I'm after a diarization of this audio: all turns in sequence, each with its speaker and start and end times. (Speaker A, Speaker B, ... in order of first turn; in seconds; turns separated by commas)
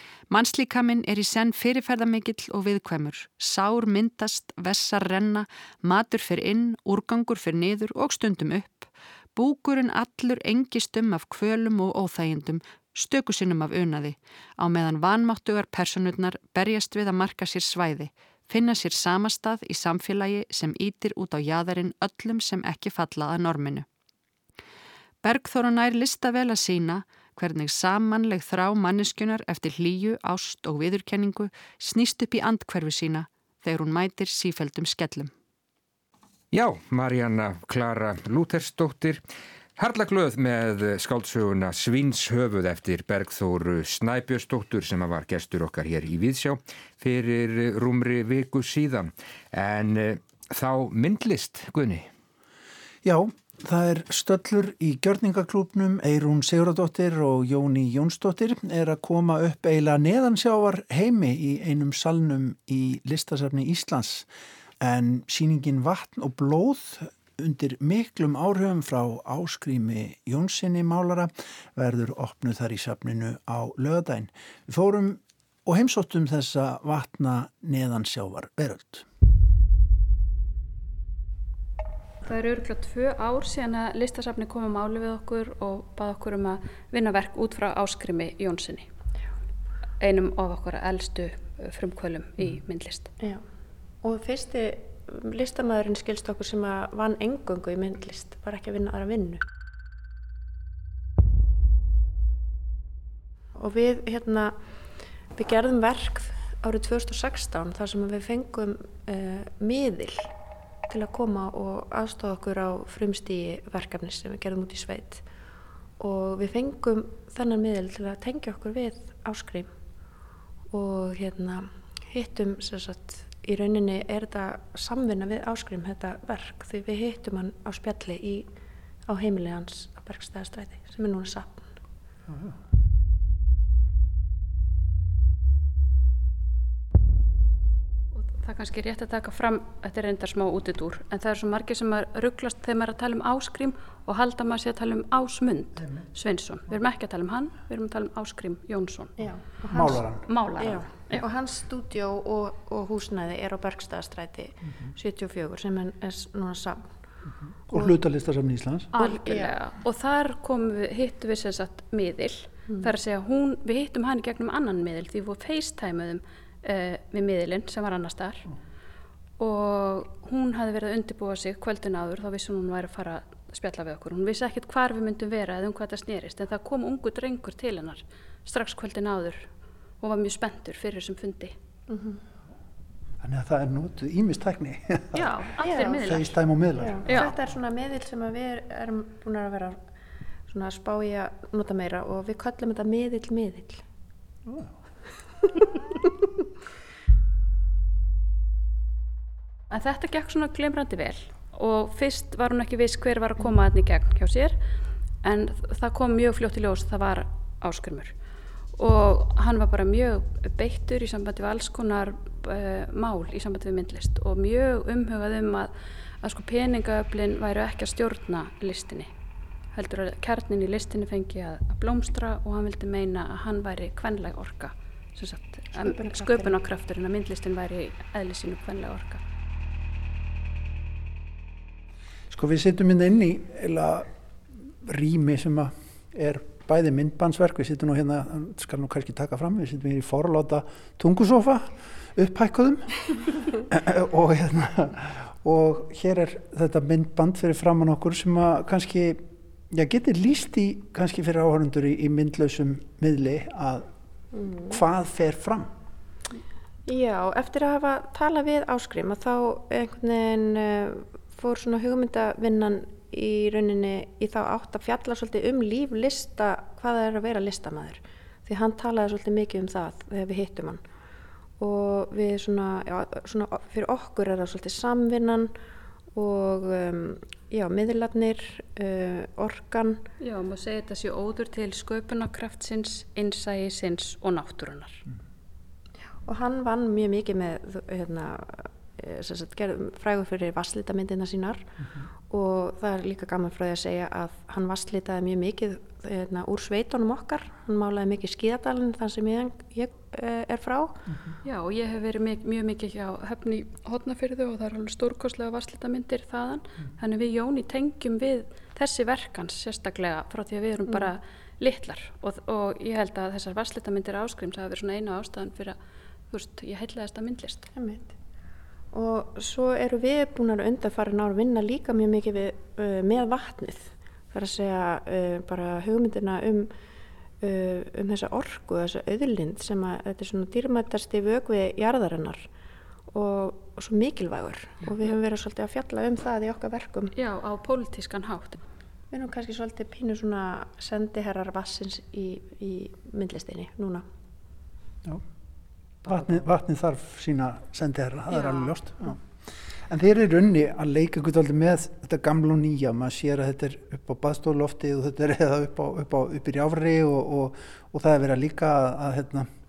Speaker A: 0.3-23.9, Speaker A: 25.2-35.3, Speaker B: 36.5-39.2, Speaker B: 39.8-52.1, Speaker C: 53.0-64.3, Speaker C: 64.8-79.0, Speaker D: 82.2-88.9, Speaker D: 90.0-93.1, Speaker E: 94.0-99.4, Speaker E: 103.5-104.5, Speaker E: 105.3-110.3, Speaker E: 110.9-115.2, Speaker E: 116.0-119.7, Speaker E: 120.7-128.5, Speaker E: 129.1-131.7, Speaker D: 138.1-151.2, Speaker E: 149.2-150.0, Speaker C: 149.7-150.2, Speaker E: 150.6-156.9, Speaker C: 157.7-158.9, Speaker E: 158.9-159.5, Speaker D: 158.9-168.4, Speaker E: 162.7-162.9, Speaker D: 169.4-179.5, Speaker D: 180.0-181.5, Speaker E: 181.9-182.2, Speaker C: 183.2-185.3, Speaker D: 185.1-186.4, Speaker E: 185.6-186.2, Speaker C: 186.0-187.3, Speaker E: 186.8-189.8, Speaker D: 187.1-187.3, Speaker E: 190.5-193.8, Speaker D: 199.7-204.6, Speaker D: 205.2-208.1, Speaker D: 208.8-219.1, Speaker D: 219.7-229.2, Speaker E: 225.8-226.6, Speaker C: 232.3-234.1, Speaker C: 234.8-242.9, Speaker C: 243.5-253.9, Speaker E: 254.3-254.8, Speaker C: 254.7-255.7, Speaker E: 256.9-270.8, Speaker E: 271.6-275.5, Speaker E: 276.1-280.0, Speaker D: 280.2-285.0, Speaker E: 286.2-291.7, Speaker E: 292.3-301.1, Speaker D: 301.4-315.8, Speaker D: 316.3-317.7, Speaker E: 317.7-318.1, Speaker E: 318.9-326.7, Speaker E: 327.4-332.5, Speaker E: 333.1-337.1, Speaker D: 337.1-338.6, Speaker E: 339.1-344.0, Speaker C: 346.0-349.3, Speaker C: 349.8-359.5